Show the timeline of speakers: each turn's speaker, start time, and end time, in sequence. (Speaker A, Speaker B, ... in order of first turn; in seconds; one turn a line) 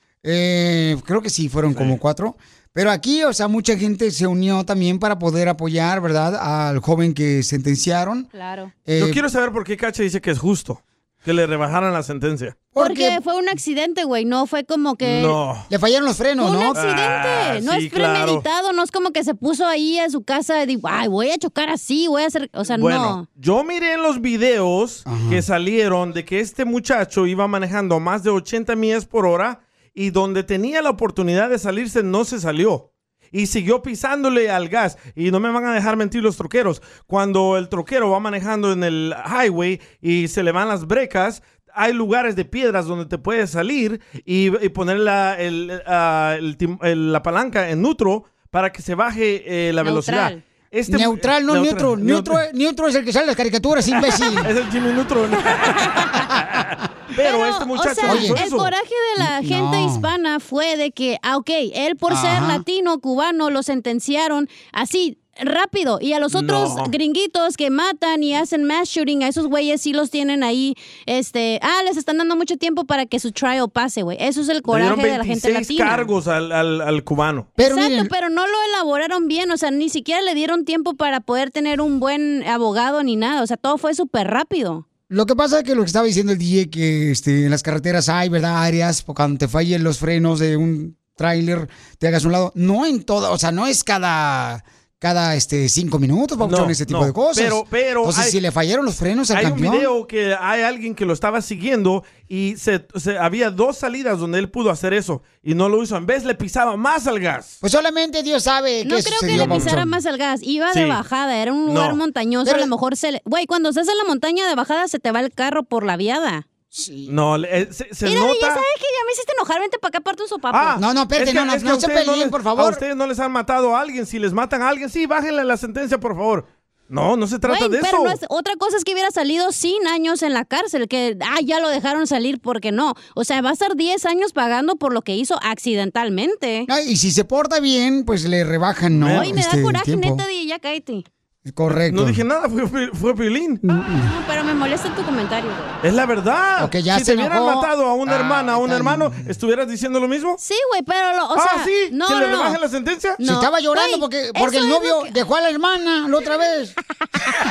Speaker A: 0.2-8.3
Speaker B: 1.7-2.0
Speaker C: 8.3-8.7
Speaker A: 8.8-9.2
Speaker B: 9.0-12.6
Speaker A: 12.7-13.2
Speaker C: 12.8-15.4
Speaker B: 15.0-15.7
Speaker A: 15.7-16.8
Speaker C: 16.4-23.2
Speaker B: 16.7-18.4
Speaker B: 22.6-52.4
Speaker A: 25.1-25.4
Speaker C: 49.8-50.4
Speaker A: 50.9-54.5
Speaker B: 54.4-55.9
Speaker C: 55.6-56.2
Speaker B: 57.1-58.7
Speaker C: 57.2-76.1
Speaker A: 58.0-58.4
Speaker A: 59.2-60.1
Speaker A: 62.1-62.6
Speaker B: 66.3-66.9
Speaker B: 74.7-77.5
Speaker A: 77.6-78.1
Speaker C: 77.6-84.8
Speaker A: 85.1-99.9
Speaker B: 96.4-98.4
Speaker B: 99.3-107.6
Speaker A: 107.6-109.8
Speaker C: 108.8-116.4
Speaker B: 109.3-109.8
Speaker B: 110.7-111.0
Speaker B: 111.7-112.0
Speaker A: 112.4-112.7
Speaker A: 116.7-117.1
Speaker B: 117.1-118.6
Speaker C: 118.0-120.8
Speaker B: 120.5-128.2
Speaker A: 120.8-122.8
Speaker C: 127.4-136.7
Speaker A: 136.7-140.2
Speaker B: 138.9-139.4
Speaker C: 139.1-141.0
Speaker A: 141.4-142.2
Speaker B: 141.7-143.6
Speaker A: 143.6-144.1
Speaker C: 143.9-145.8
Speaker B: 145.8-150.4
Speaker A: 146.6-149.3
Speaker C: 150.4-152.6
Speaker B: 151.3-153.2
Speaker C: 153.2-155.2
Speaker A: 153.2-156.8